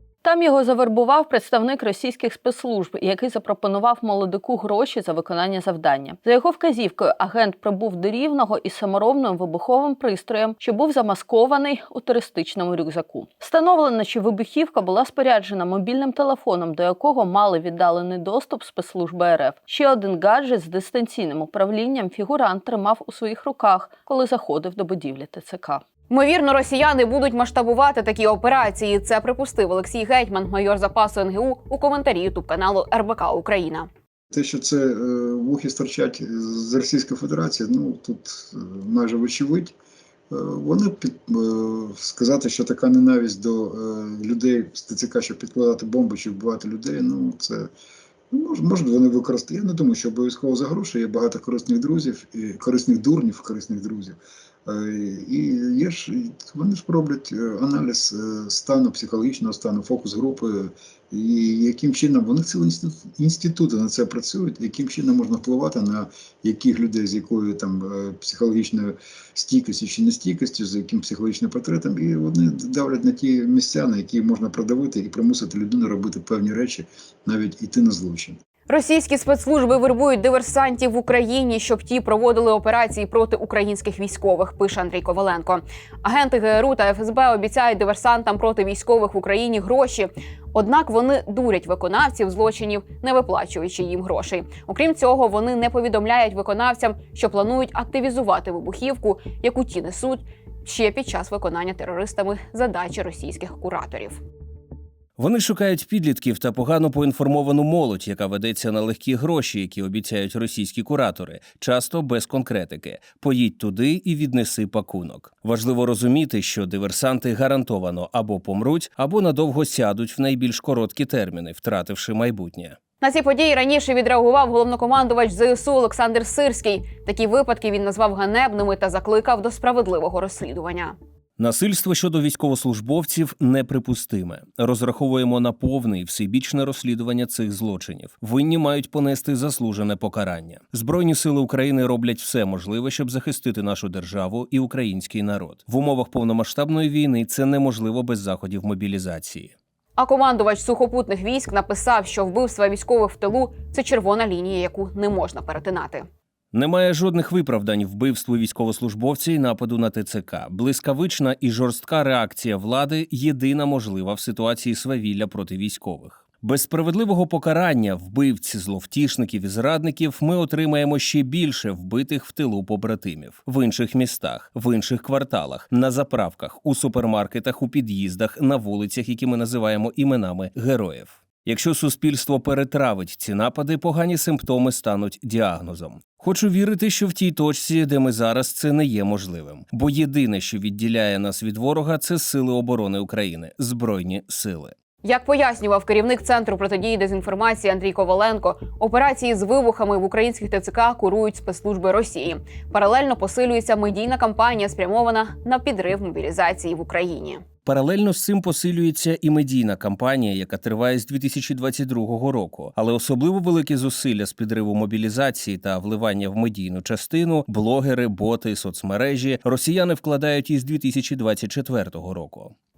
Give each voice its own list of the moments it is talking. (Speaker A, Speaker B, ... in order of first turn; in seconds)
Speaker A: 0.2-25.8
Speaker B: 26.1-33.9, 78.7-104.2, 123.0-130.9, 150.0-156.1, 195.0-207.4
Speaker C: 34.3-39.7, 40.3-47.7, 48.3-78.4
Speaker D: 105.2-122.8, 131.4-149.5, 156.5-194.7, 207.7-222.5